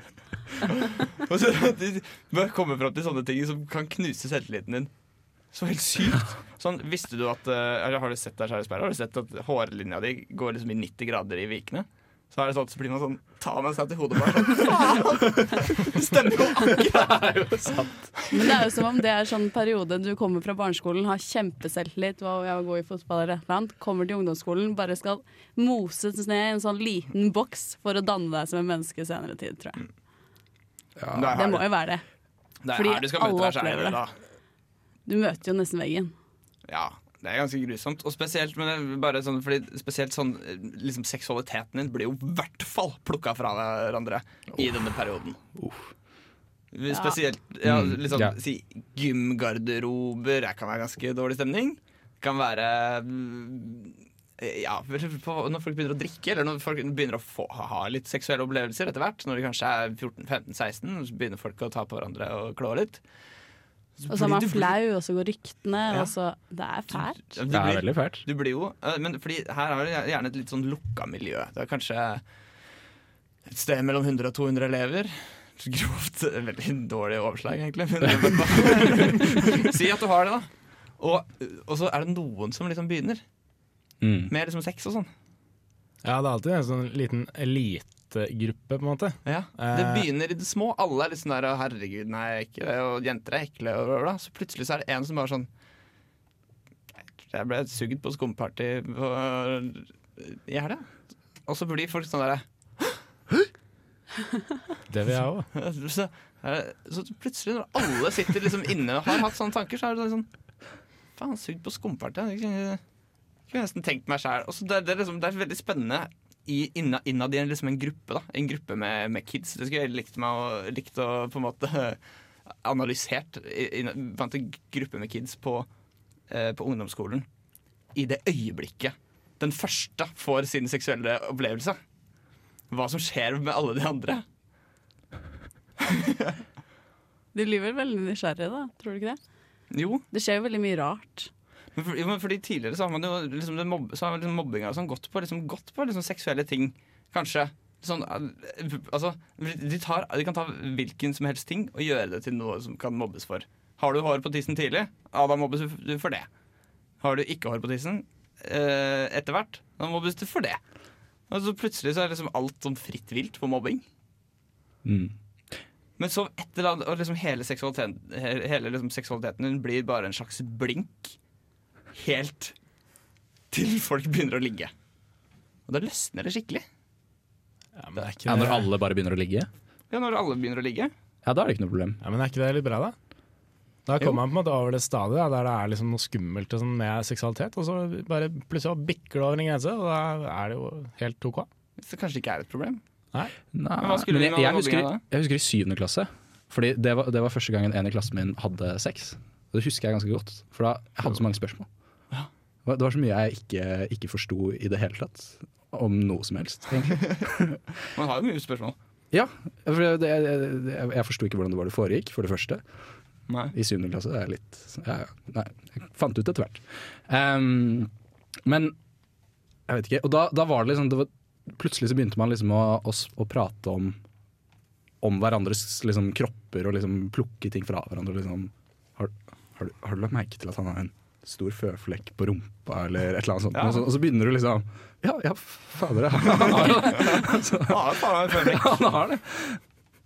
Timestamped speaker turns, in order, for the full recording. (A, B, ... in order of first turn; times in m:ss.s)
0:00.6-0:04.9 A
0:05.5-0:17.8 A
0:16.6-0:18.1 B
0:18.3-0:29.8 C
0:31.0-0:31.4 B
0:31.1-0:31.6 A
0:31.3-0:32.0 C
0:32.6-0:34.1 A
0:32.7-0:34.0 C
0:35.0-0:36.1 C
0:36.7-0:45.4 A
0:45.6-0:45.9 B
0:46.7-1:03.0 A
0:46.9-0:47.2 C
0:47.6-0:48.3 B
1:04.0-1:04.7 A
1:04.1-1:07.2 C
1:07.2-1:12.2 A
1:07.5-1:08.2 B
1:13.4-1:23.2 A
1:24.0-1:24.3 B
1:24.3-1:25.1 A
1:26.0-1:30.0 D
1:29.2-1:35.5 A
1:37.3-1:40.8 A
1:41.4-1:43.0 A
1:44.9-1:45.5 D
1:45.5-1:50.3 A
1:51.2-1:52.8 A
1:53.5-2:02.0 A
2:02.6-2:05.7 A
2:06.3-2:07.2 A
2:07.9-2:11.8 A
2:12.7-2:14.2 A
2:15.8-2:16.3 A
2:17.3-2:19.2 C
2:19.7-2:20.0 A
2:20.1-2:21.3 C
2:21.7-2:36.3 A
2:37.0-2:40.6 A
2:41.3-2:43.8 A
2:44.8-2:45.1 B
2:46.0-2:51.2 A
2:51.9-2:52.5 A
2:53.5-2:54.7 A
2:55.7-2:56.6 A
2:57.8-2:58.6 D
2:58.3-2:59.5 B
2:59.9-3:00.9 A
3:01.2-3:02.0 B
3:02.0-3:02.9 D
3:03.8-3:11.5 D
3:11.8-3:12.8 A
3:13.5-3:21.7 B
3:13.8-3:15.0 A
3:22.6-3:27.6 B
3:26.9-3:27.2 A
3:27.9-3:28.8 A
3:29.1-3:32.6 B
3:33.3-3:33.5 A
3:33.5-3:37.9 B
3:38.4-3:38.8 B
3:39.7-3:44.0 B
3:45.0-3:59.6 B
3:53.5-3:53.8 A
3:56.3-3:58.8 A